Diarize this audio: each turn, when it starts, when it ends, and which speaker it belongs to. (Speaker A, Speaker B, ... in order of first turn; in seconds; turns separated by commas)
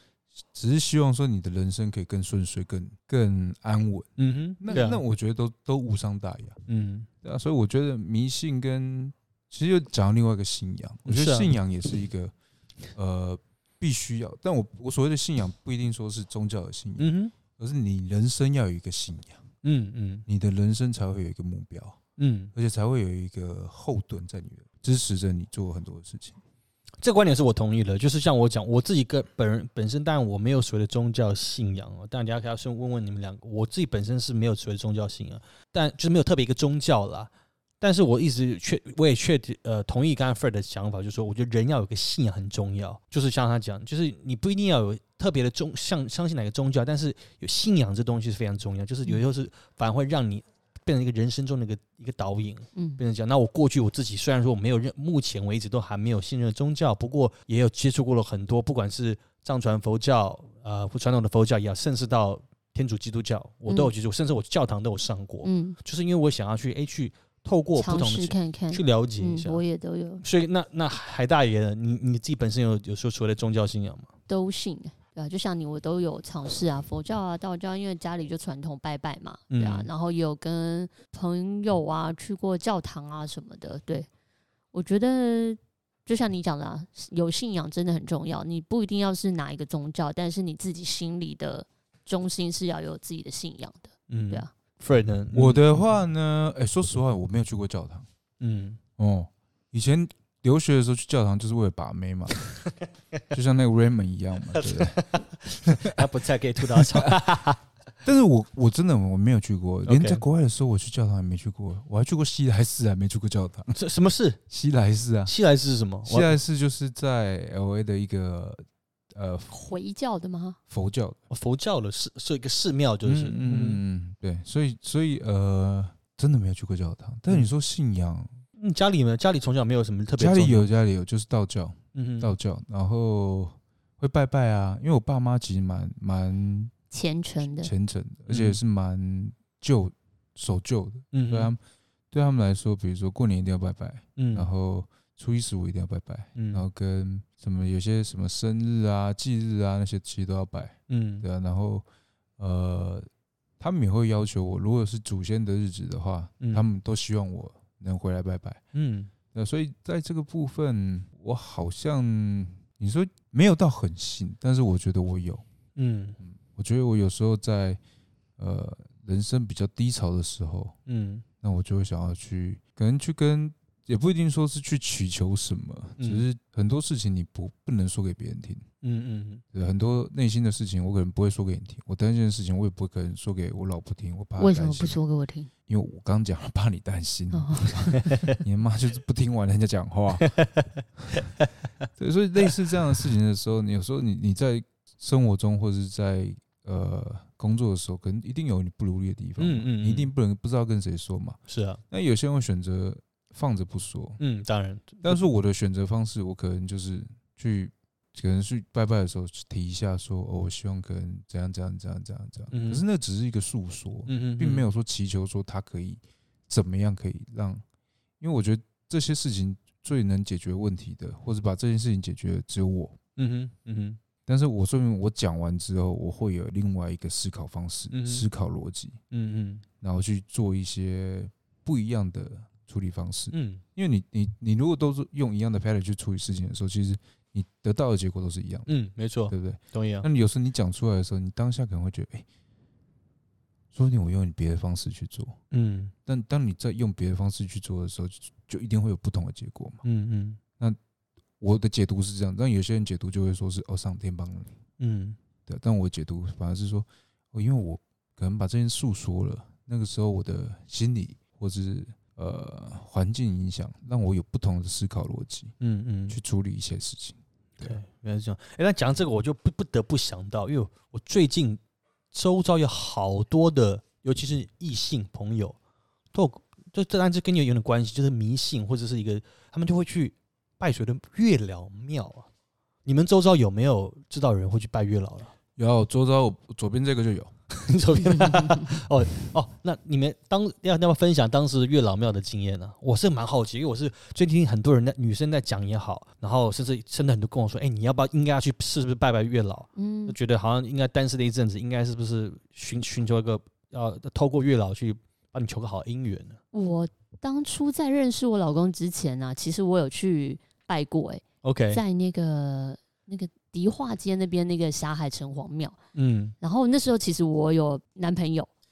Speaker A: 0.5-6.6, Speaker B: 4.2-5.0, Speaker B: 6.7-7.1, Speaker A: 7.2-12.3, Speaker B: 11.1-11.5, Speaker A: 12.9-19.4, Speaker B: 17.0-17.3, Speaker B: 19.6-20.2, Speaker A: 20.3-22.0, Speaker B: 22.2-22.5, Speaker A: 22.6-26.4, Speaker B: 27.0-37.3, Speaker B: 37.8-69.6, Speaker C: 52.8-53.0, Speaker C: 63.7-63.9, Speaker C: 65.4-65.8, Speaker C: 67.8-70.2, Speaker B: 70.2-74.1, Speaker C: 74.3-84.1, Speaker B: 79.5-79.9, Speaker C: 84.7-94.5, Speaker B: 94.1-95.8, Speaker A: 95.3-98.1, Speaker B: 98.4-98.8, Speaker A: 99.0-102.4, Speaker A: 103.3-105.0, Speaker B: 104.5-107.6, Speaker A: 105.5-105.9, Speaker A: 106.7-107.1, Speaker A: 108.0-113.8, Speaker B: 109.9-110.2, Speaker B: 113.8-114.4, Speaker A: 114.5-115.3, Speaker B: 115.3-116.3, Speaker A: 116.0-119.5, Speaker C: 119.5-120.6, Speaker A: 120.7-121.2, Speaker B: 121.3-123.8, Speaker A: 123.0-128.4, Speaker B: 128.6-130.7, Speaker A: 130.2-136.7, Speaker B: 131.9-132.3, Speaker C: 136.9-137.7, Speaker A: 137.6-141.6, Speaker B: 138.3-138.6, Speaker B: 141.1-141.5, Speaker A: 142.1-151.8, Speaker B: 144.2-144.5, Speaker B: 146.3-146.7, Speaker B: 150.9-151.3, Speaker A: 152.4-153.1, Speaker A: 153.6-158.6, Speaker B: 158.7-159.1, Speaker A: 159.3-165.4, Speaker B: 165.8-166.2, Speaker A: 166.2-167.8, Speaker A: 168.4-170.8, Speaker B: 170.9-171.2, Speaker A: 171.4-178.7, Speaker B: 176.0-176.2, Speaker B: 178.8-179.4, Speaker A: 179.5-185.0, Speaker C: 184.4-185.5, Speaker A: 185.7-190.3, Speaker C: 187.3-188.4, Speaker B: 187.9-188.3, Speaker B: 190.2-191.5, Speaker A: 192.0-201.4, Speaker B: 199.4-200.1, Speaker B: 201.5-201.8, Speaker A: 201.9-204.2, Speaker B: 204.2-205.2, Speaker A: 205.0-217.6, Speaker B: 212.5-212.8, Speaker B: 214.1-214.7, Speaker A: 218.2-223.0, Speaker B: 223.2-224.0, Speaker A: 224.3-229.0, Speaker B: 227.9-228.3, Speaker B: 229.1-229.6, Speaker A: 229.8-238.7, Speaker B: 233.3-233.6, Speaker B: 238.7-240.1, Speaker A: 239.3-242.3, Speaker A: 243.7-245.4, Speaker B: 245.5-245.9, Speaker A: 246.1-249.8, Speaker B: 249.8-250.4, Speaker A: 251.4-254.6, Speaker B: 254.8-255.2, Speaker A: 255.5-265.5, Speaker B: 265.6-266.2, Speaker A: 266.1-267.8, Speaker B: 267.6-271.6, Speaker B: 272.1-275.6, Speaker B: 276.1-282.3, Speaker B: 282.9-285.3, Speaker A: 285.6-287.3, Speaker B: 287.5-306.4, Speaker C: 299.8-300.2, Speaker C: 306.5-315.8, Speaker B: 311.4-311.8, Speaker B: 315.9-316.3, Speaker C: 316.4-318.5